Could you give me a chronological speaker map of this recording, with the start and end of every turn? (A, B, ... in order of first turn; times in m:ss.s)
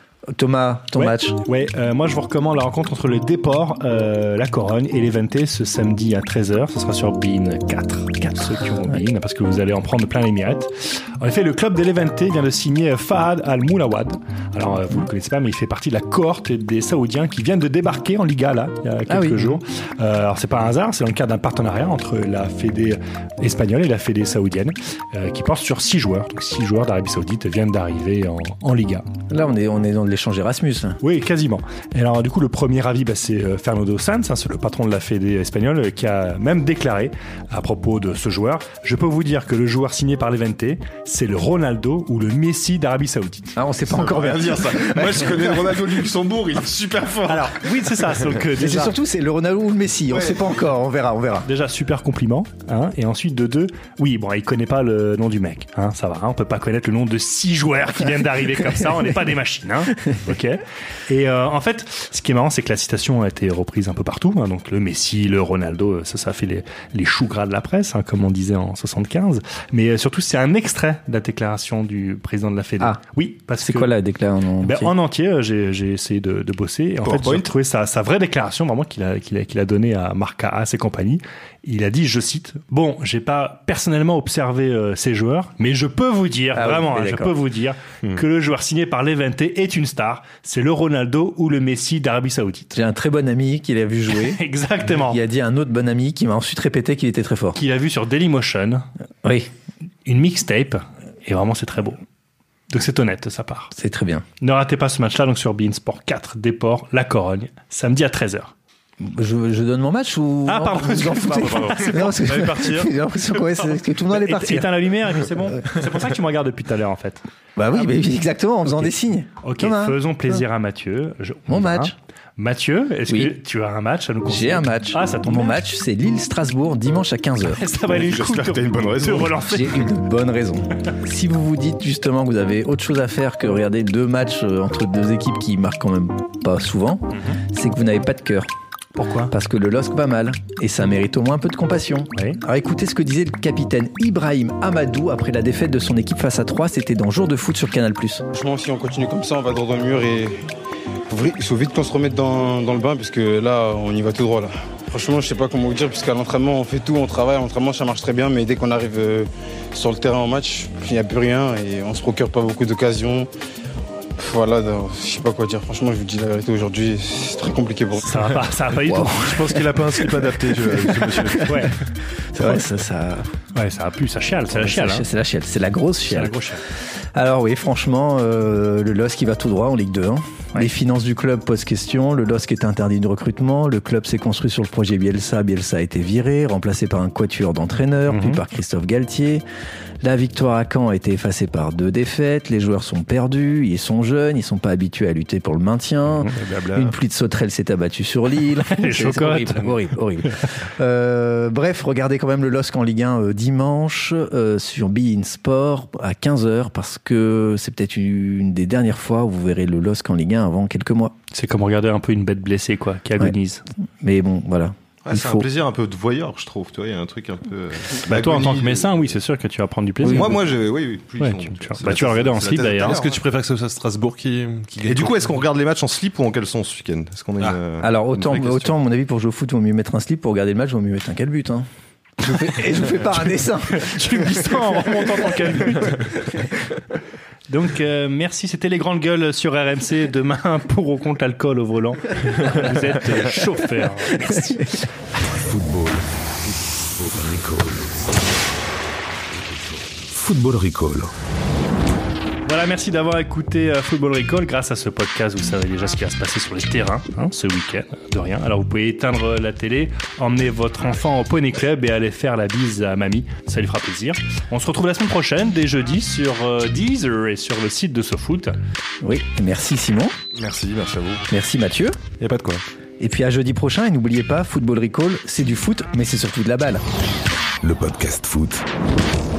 0:00.3-0:01.4 A
0:01.0-0:29.0 B
0:08.4-0:09.0 A
0:19.1-0:19.6 A
0:29.3-0:31.0 A
0:31.0-0:43.6 B
0:43.6-0:45.7 A
0:43.9-0:47.7 C
0:47.3-0:48.9 B
0:48.5-0:51.5 A
0:50.1-0:50.4 C
0:51.4-1:13.9 B
1:13.5-1:14.9 A
1:14.6-1:32.7 B
1:17.0-1:17.4 C
1:26.5-1:27.4 A
1:32.7-1:37.6 A
1:34.1-1:35.2 B
1:37.5-1:38.9 B
1:39.2-1:39.5 A
1:40.0-1:42.0 B
1:42.7-1:43.7 B
1:43.7-1:44.2 A
1:44.4-1:48.5 B
1:49.0-1:54.9 A
1:50.4-1:53.0 B
1:53.6-1:57.2 B
1:57.6-2:00.4 A
1:59.4-2:05.6 B
2:01.5-2:01.9 A
2:03.1-2:03.3 A
2:04.3-2:07.6 A
2:07.5-2:09.9 B
2:07.9-2:09.4 C
2:09.4-2:18.5 A
2:17.1-2:17.4 B
2:19.0-2:19.3 B
2:19.3-2:28.2 A
2:28.3-2:30.4 D
2:31.1-2:43.3 D
2:44.2-2:48.3 D
2:48.0-2:49.4 B
2:48.8-2:49.2 A
2:49.0-2:51.6 E
2:50.1-2:51.7 A
2:51.4-2:51.8 B
2:52.3-2:53.3 A
2:53.5-2:55.0 B
2:54.5-2:56.4 A
2:56.1-2:56.6 B
2:57.1-3:09.4 A
3:08.1-3:08.4 B
3:10.0-3:31.1 A
3:16.3-3:16.9 E
3:18.7-3:19.7 B
3:31.3-3:33.6 B
3:34.0-3:35.4 A
3:35.0-3:39.0 C
3:38.0-3:40.4 B
3:40.0-3:40.3 A
3:40.0-3:43.2 C
3:41.2-3:43.0 B
3:42.8-3:45.4 E
3:44.8-3:47.9 C
3:47.8-3:51.7 A
3:48.2-3:48.7 E
3:52.2-3:54.7 A
3:53.6-3:56.0 B
3:57.5-4:04.8 B
4:05.3-4:08.1 F
4:09.4-4:11.1 F
4:12.4-4:28.6 B
4:29.0-4:30.2 A
4:30.3-4:31.2 C
4:31.3-4:32.0 A
4:32.2-4:32.6 C
4:33.0-4:36.8 A
4:37.6-4:38.6 F